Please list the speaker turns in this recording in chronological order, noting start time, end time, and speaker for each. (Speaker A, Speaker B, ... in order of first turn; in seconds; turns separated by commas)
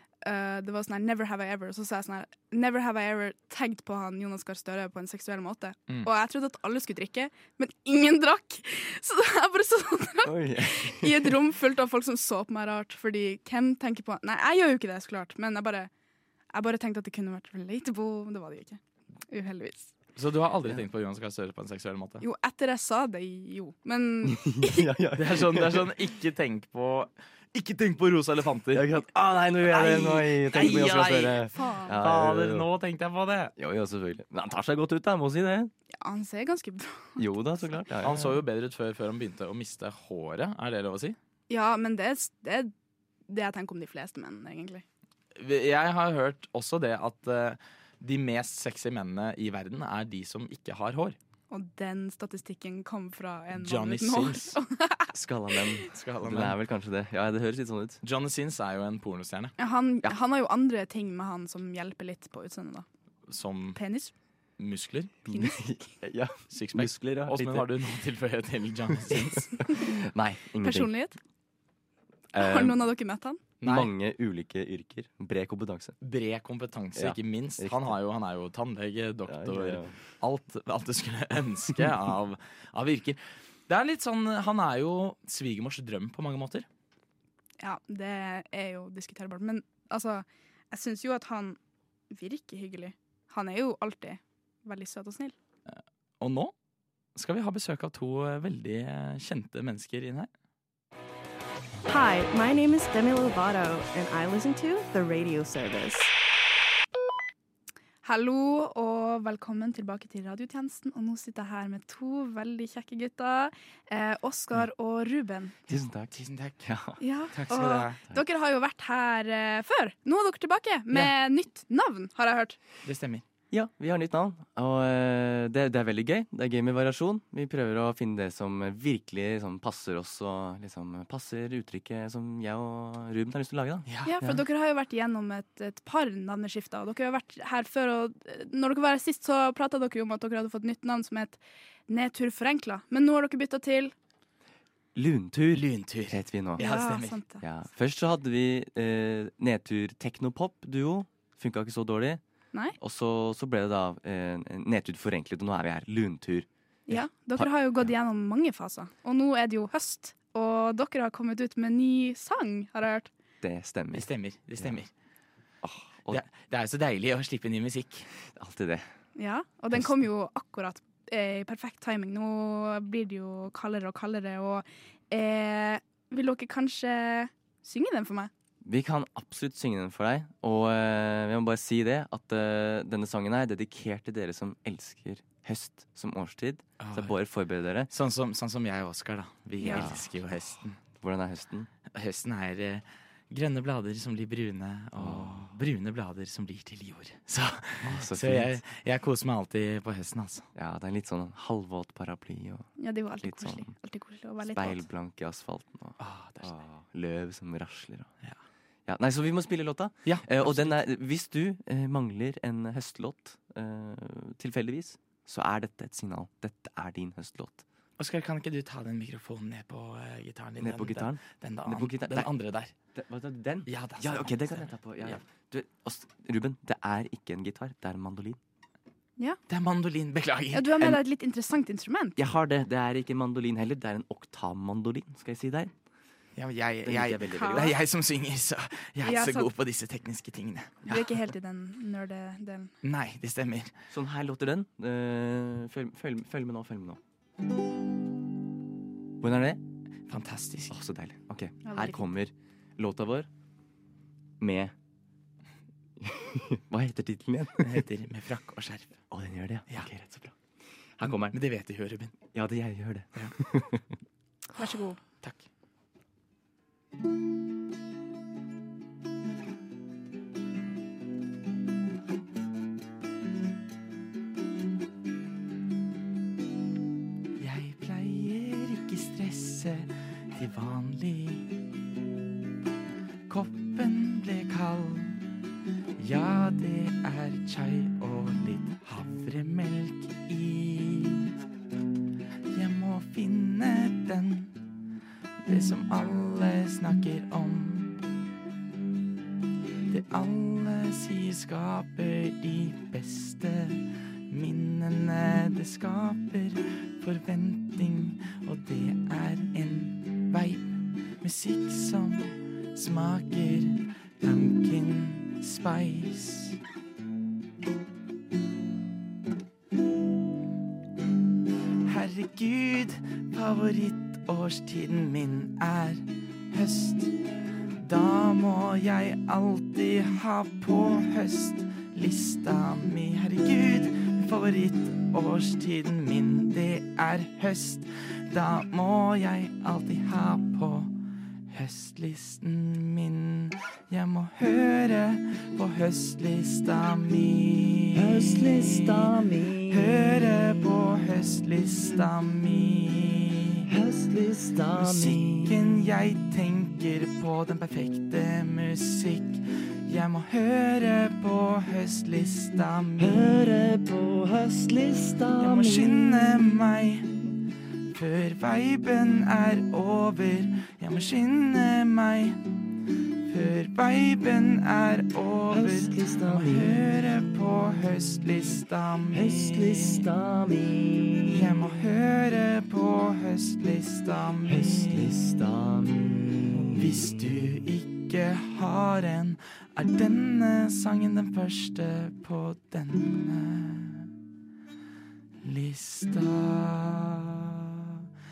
Speaker A: 0.2-15.9, Speaker B: 10.2-11.4, Speaker A: 16.5-19.9, Speaker C: 20.1-22.2, Speaker A: 22.2-24.9, Speaker B: 24.2-25.9, Speaker C: 25.1-28.9, Speaker B: 28.7-32.7, Speaker C: 29.6-33.5, Speaker A: 31.5-32.0, Speaker B: 33.6-35.7, Speaker A: 36.0-37.8, Speaker B: 37.2-38.4, Speaker C: 38.0-41.1, Speaker A: 41.5-42.7, Speaker A: 43.3-44.8, Speaker C: 45.4-51.1, Speaker A: 51.5-55.1, Speaker C: 53.5-54.6, Speaker B: 55.1-58.0, Speaker C: 55.9-56.6, Speaker C: 58.0-59.5, Speaker A: 59.6-62.8, Speaker C: 63.3-63.8, Speaker A: 63.8-64.1, Speaker C: 64.6-65.2, Speaker B: 65.2-67.8, Speaker A: 65.3-65.7, Speaker C: 66.5-69.5, Speaker B: 69.1-70.9, Speaker A: 69.7-69.9, Speaker A: 70.6-71.2, Speaker B: 72.3-72.9, Speaker A: 72.3-73.4, Speaker C: 73.6-73.9, Speaker B: 73.6-75.9, Speaker C: 76.0-86.7, Speaker B: 77.0-77.9, Speaker B: 79.3-79.9, Speaker A: 87.6-91.6, Speaker A: 92.1-95.3, Speaker C: 96.2-96.5, Speaker C: 97.2-100.3, Speaker D: 101.9-106.1, Speaker A: 108.0-115.5, Speaker C: 115.7-116.7, Speaker B: 115.7-117.0, Speaker A: 117.0-122.6, Speaker C: 117.3-118.0, Speaker C: 122.8-123.2, Speaker B: 123.5-134.3, Speaker C: 133.9-134.4, Speaker A: 134.0-143.9, Speaker B: 144.9-146.7, Speaker C: 145.5-147.2, Speaker A: 146.6-147.4, Speaker B: 147.4-152.2, Speaker B: 152.8-156.5, Speaker A: 156.9-163.1, Speaker B: 157.3-157.9, Speaker B: 163.4-164.1, Speaker C: 163.9-164.9, Speaker B: 165.6-166.2, Speaker C: 166.1-168.1, Speaker B: 168.3-168.9, Speaker A: 169.2-178.3, Speaker B: 178.6-187.9, Speaker C: 186.8-187.2, Speaker C: 187.9-190.8, Speaker A: 189.6-189.9, Speaker B: 189.7-190.1, Speaker B: 191.0-191.7, Speaker C: 191.9-200.5, Speaker B: 195.0-195.4, Speaker B: 197.8-198.6, Speaker B: 200.6-202.7, Speaker A: 202.8-204.8, Speaker B: 203.2-203.7, Speaker B: 204.4-208.1, Speaker C: 206.0-206.5, Speaker B: 208.8-217.6, Speaker C: 210.0-210.8, Speaker C: 218.0-222.7, Speaker B: 220.6-222.3, Speaker B: 222.9-228.4, Speaker C: 223.7-225.2, Speaker C: 229.5-231.0, Speaker A: 230.5-232.2, Speaker B: 232.2-235.7, Speaker C: 236.4-241.2, Speaker B: 236.8-237.8, Speaker A: 237.3-237.7, Speaker A: 239.0-239.5, Speaker A: 240.8-242.7, Speaker C: 242.8-243.7, Speaker B: 243.9-247.0, Speaker B: 249.2-249.6, Speaker C: 250.1-250.7, Speaker B: 250.7-253.3, Speaker A: 251.6-252.1, Speaker B: 254.4-254.7, Speaker B: 256.0-257.8, Speaker C: 257.6-259.0, Speaker B: 259.1-260.3, Speaker B: 261.0-261.4, Speaker C: 261.0-262.1, Speaker B: 262.3-263.9, Speaker A: 264.6-265.0, Speaker C: 277.4-281.6, Speaker C: 283.3-285.2, Speaker C: 286.0-291.3, Speaker C: 292.5-294.6, Speaker C: 295.4-298.1, Speaker C: 299.9-316.6, Speaker C: 321.8-327.1, Speaker C: 327.8-340.9, Speaker C: 341.5-349.1, Speaker B: 347.9-350.2, Speaker C: 349.7-353.7, Speaker B: 353.6-355.7, Speaker C: 354.7-363.4, Speaker B: 363.0-366.4, Speaker C: 365.4-367.3, Speaker C: 367.9-372.4, Speaker C: 373.2-380.1, Speaker B: 375.5-376.8, Speaker B: 379.1-381.6, Speaker C: 381.3-385.2, Speaker B: 384.4-387.1, Speaker C: 386.6-394.1, Speaker C: 395.4-398.0